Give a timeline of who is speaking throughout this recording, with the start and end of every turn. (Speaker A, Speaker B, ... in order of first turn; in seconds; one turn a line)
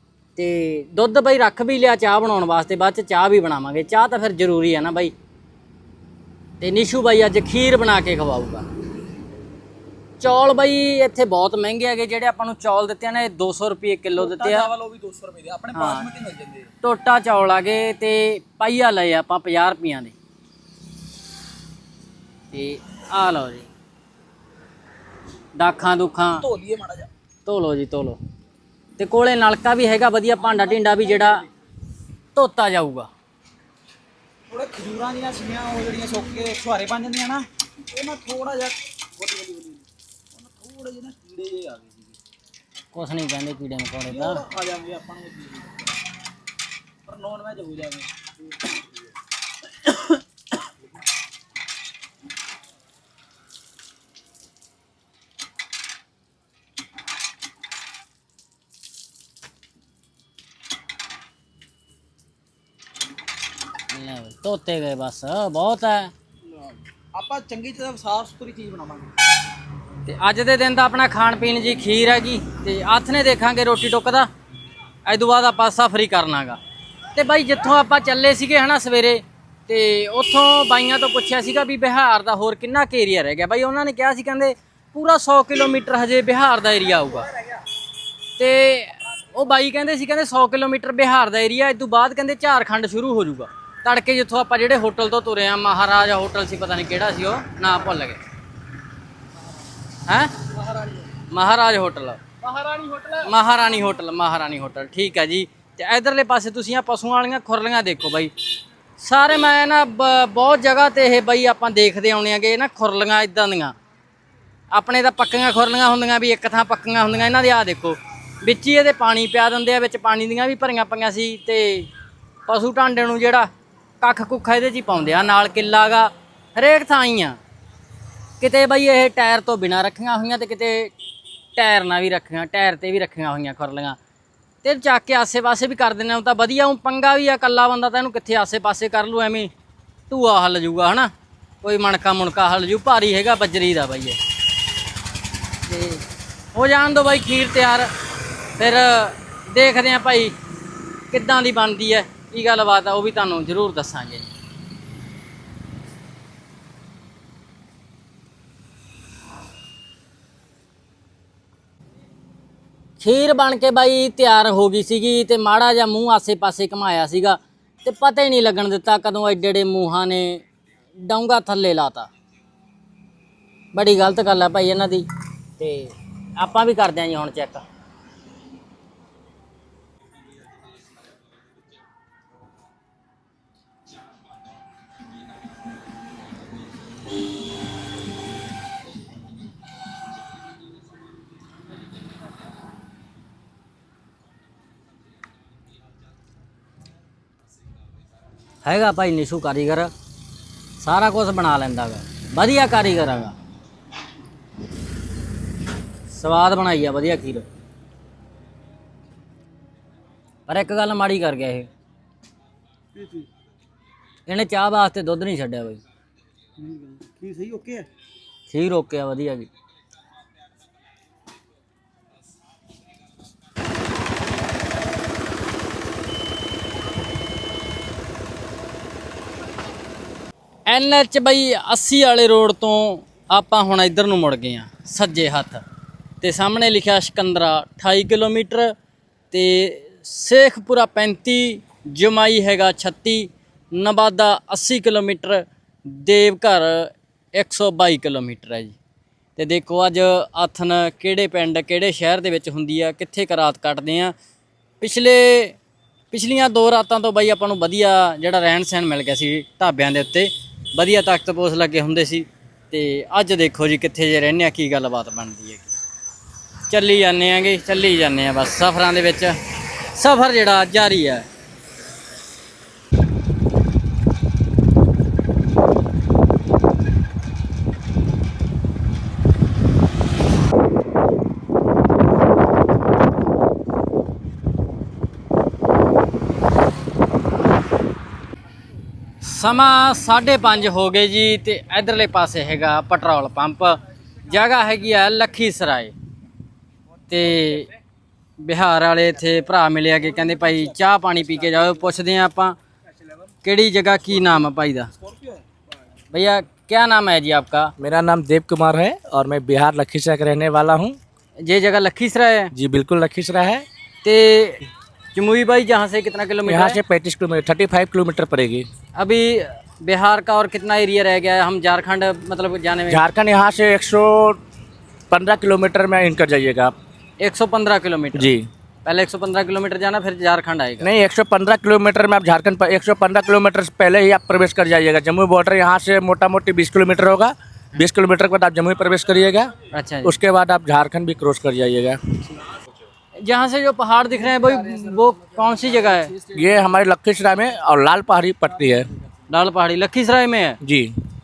Speaker A: 0.3-5.1
Speaker A: 6.6-8.7
Speaker A: 10.2-14.7
Speaker B: 14.2-16.7
Speaker A: 15.7-16.1
Speaker A: 16.8-20.1
Speaker A: 22.5-23.7
Speaker A: 25.6-26.4
Speaker B: 26.4-27.1
Speaker A: 27.4-28.2
Speaker A: 29.0-31.4
Speaker B: 30.5-31.4
Speaker A: 32.3-33.1
Speaker B: 34.5-42.2
Speaker A: 42.9-44.4
Speaker B: 44.1-45.8
Speaker B: 47.0-48.1
Speaker B: 49.9-50.1
Speaker A: 63.9-66.1
Speaker B: 66.5-69.1
Speaker A: 70.0-74.3
Speaker A: 75.0-76.6
Speaker A: 77.1-87.3
Speaker A: 88.4-98.2
Speaker A: 100.1-100.3
Speaker A: 101.3-102.2
Speaker B: 102.4-103.2
Speaker A: 103.2-108.3
Speaker A: 109.0-113.8
Speaker A: 114.7-121.9
Speaker A: 122.5-123.5
Speaker A: 124.0-127.4
Speaker A: 128.4-130.9
Speaker A: 131.6-134.0
Speaker A: 134.6-139.5
Speaker A: 140.1-141.1
Speaker A: 141.6-144.2
Speaker A: 145.7-146.0
Speaker A: 146.5-147.9
Speaker A: 148.6-150.3
Speaker A: 151.1-154.3
Speaker A: 163.0-170.4
Speaker A: 171.0-172.1
Speaker A: 173.7-175.1
Speaker A: 175.6-177.6
Speaker A: 198.6-199.9
Speaker A: 200.8-203.3
Speaker A: 206.1-207.4
Speaker A: 210.5-211.7
Speaker A: 214.3-215.8
Speaker B: 216.6-217.8
Speaker A: 218.5-219.5
Speaker A: 230.7-235.6
Speaker A: 236.2-238.7
Speaker A: 239.3-248.8
Speaker A: 249.3-254.1
Speaker A: 254.8-255.6
Speaker A: 256.1-265.7
Speaker A: 266.7-269.4
Speaker A: 269.9-271.2
Speaker A: 289.2-295.9
Speaker A: 297.1-297.7
Speaker A: 298.4-302.6
Speaker A: 303.4-304.9
Speaker B: 304.1-304.4
Speaker B: 305.0-305.4
Speaker A: 306.1-307.7
Speaker C: 307.8-311.0
Speaker A: 311.4-312.5
Speaker C: 312.5-313.6
Speaker A: 314.0-316.8
Speaker C: 316.4-318.6
Speaker A: 318.9-323.0
Speaker C: 322.9-324.4
Speaker C: 325.1-326.7
Speaker A: 327.2-328.3
Speaker C: 328.1-328.5
Speaker A: 328.8-330.9
Speaker C: 330.8-339.5
Speaker A: 339.7-340.1
Speaker C: 340.0-342.0
Speaker A: 343.2-346.2
Speaker C: 346.3-348.9
Speaker A: 349.3-350.6
Speaker C: 350.6-351.0